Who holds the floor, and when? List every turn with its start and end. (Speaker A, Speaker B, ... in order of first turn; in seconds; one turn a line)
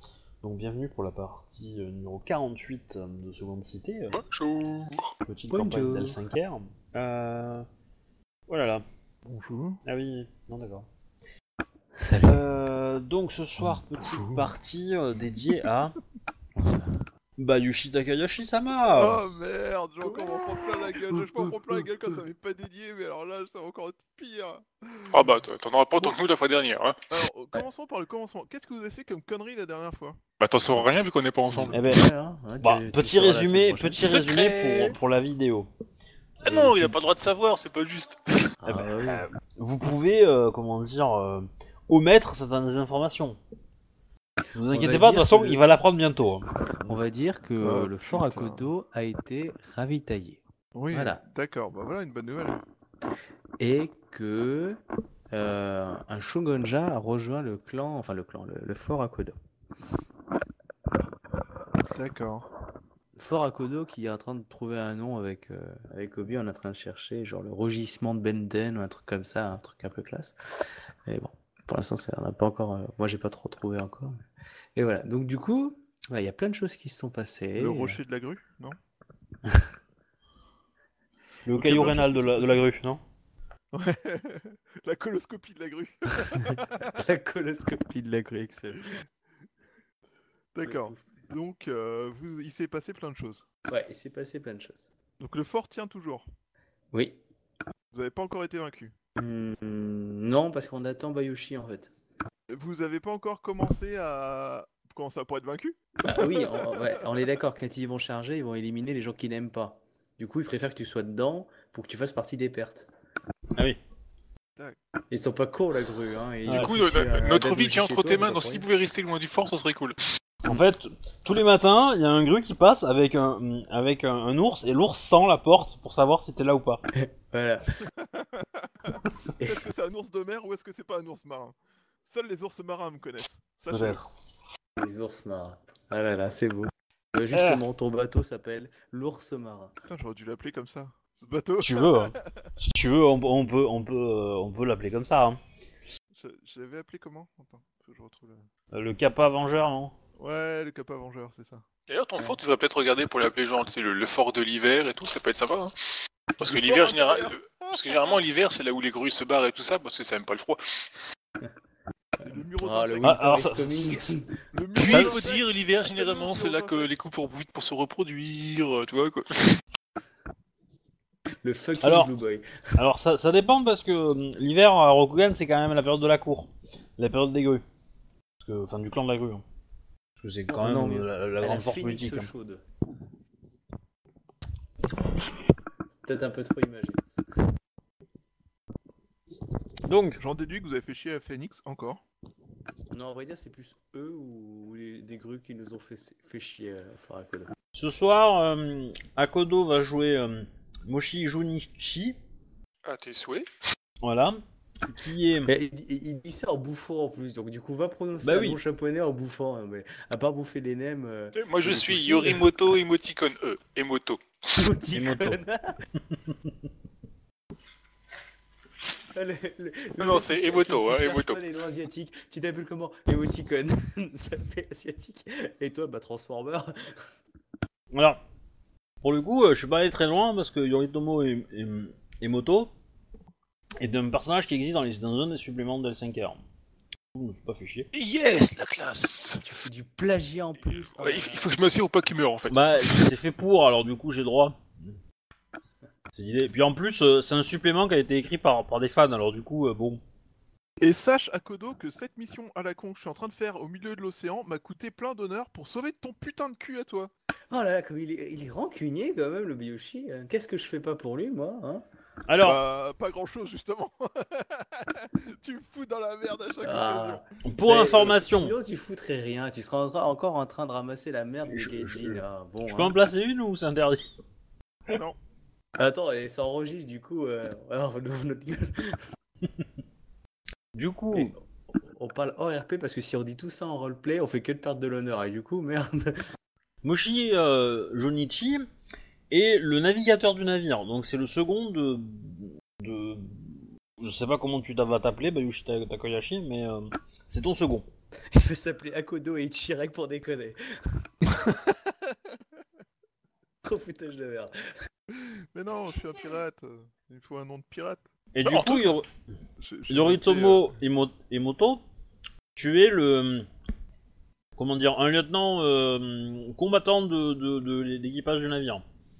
Speaker A: 0.4-4.2
Speaker B: 4.1-5.1
Speaker A: 5.2-7.7
Speaker C: 5.5-6.2
Speaker A: 8.5-8.8
Speaker D: 9.2-9.8
Speaker A: 9.8-10.9
Speaker C: 11.9-12.4
Speaker A: 12.2-15.9
Speaker C: 16.6-17.0
Speaker A: 17.4-19.2
Speaker D: 18.9-25.4
Speaker C: 20.0-20.5
Speaker C: 21.1-21.8
Speaker B: 25.1-27.0
Speaker D: 27.1-30.2
Speaker B: 30.4-31.8
Speaker C: 31.5-34.1
Speaker A: 31.7-32.1
Speaker A: 32.6-35.7
Speaker B: 34.0-34.9
Speaker A: 36.4-37.0
Speaker B: 36.4-38.5
Speaker C: 38.6-39.2
Speaker A: 38.6-43.4
Speaker A: 44.5-47.0
Speaker C: 44.7-45.6
Speaker C: 46.8-50.4
Speaker D: 47.6-48.7
Speaker D: 50.7-52.6
Speaker C: 50.9-51.2
Speaker C: 53.6-59.4
Speaker D: 61.9-62.5
Speaker C: 63.1-70.3
Speaker C: 71.0-74.2
Speaker C: 74.8-78.0
Speaker D: 77.5-78.8
Speaker A: 81.4-83.0
Speaker D: 81.5-82.6
Speaker D: 83.7-87.0
Speaker C: 86.2-88.9
Speaker D: 90.5-93.5
Speaker C: 90.6-91.2
Speaker C: 93.7-94.9
Speaker D: 95.2-96.2
Speaker C: 96.9-97.2
Speaker D: 97.9-98.9
Speaker C: 99.2-101.9
Speaker D: 102.5-106.9
Speaker C: 106.0-112.9
Speaker C: 115.1-118.7
Speaker B: 116.5-120.0
Speaker A: 120.4-126.8
Speaker C: 126.9-127.8
Speaker D: 127.8-134.0
Speaker C: 129.4-129.6
Speaker A: 133.7-134.1
Speaker C: 134.8-139.7
Speaker A: 137.3-137.6
Speaker D: 139.8-142.5
Speaker A: 141.6-145.4
Speaker D: 146.1-148.5
Speaker A: 148.7-149.9
Speaker D: 150.2-151.6
Speaker B: 151.9-155.7
Speaker B: 156.4-160.6
Speaker D: 156.4-158.2
Speaker D: 162.2-163.2
Speaker C: 162.2-164.3
Speaker A: 163.0-164.0
Speaker D: 164.5-166.9
Speaker B: 164.8-169.6
Speaker A: 164.9-165.2
Speaker C: 171.4-172.6
Speaker A: 171.8-172.1
Speaker A: 172.8-177.6
Speaker A: 178.4-179.4
Speaker A: 180.2-182.3
Speaker C: 180.5-182.6
Speaker C: 186.0-187.0
Speaker A: 189.8-190.2
Speaker D: 190.2-192.0
Speaker C: 192.9-197.5
Speaker A: 197.7-202.2
Speaker B: 202.8-203.5
Speaker A: 204.0-205.5
Speaker C: 205.4-212.4
Speaker A: 208.2-208.6
Speaker B: 211.3-214.7
Speaker C: 214.5-215.7
Speaker A: 214.9-215.4
Speaker A: 216.1-216.5
Speaker C: 219.1-227.0
Speaker B: 220.0-221.4
Speaker A: 227.9-228.2
Speaker A: 229.0-232.7
Speaker A: 233.8-236.4
Speaker A: 237.1-237.9
Speaker B: 237.9-239.4
Speaker C: 239.4-241.6
Speaker B: 240.9-243.1
Speaker A: 242.5-244.9
Speaker A: 246.1-250.0
Speaker D: 250.8-257.1
Speaker C: 257.5-261.8
Speaker A: 262.3-262.6
Speaker D: 262.4-267.2
Speaker C: 266.6-273.0
Speaker A: 267.4-268.5
Speaker A: 271.5-274.0
Speaker D: 274.9-275.2
Speaker C: 275.8-279.0
Speaker A: 280.7-281.3
Speaker C: 281.1-286.1
Speaker A: 286.8-288.6
Speaker A: 289.3-297.9
Speaker C: 298.3-300.7
Speaker D: 301.4-301.7
Speaker C: 303.6-304.5
Speaker D: 305.1-308.1
Speaker A: 308.3-309.1
Speaker B: 308.4-308.9
Speaker D: 309.6-310.7
Speaker A: 309.9-311.8
Speaker A: 312.6-313.5
Speaker A: 314.6-318.8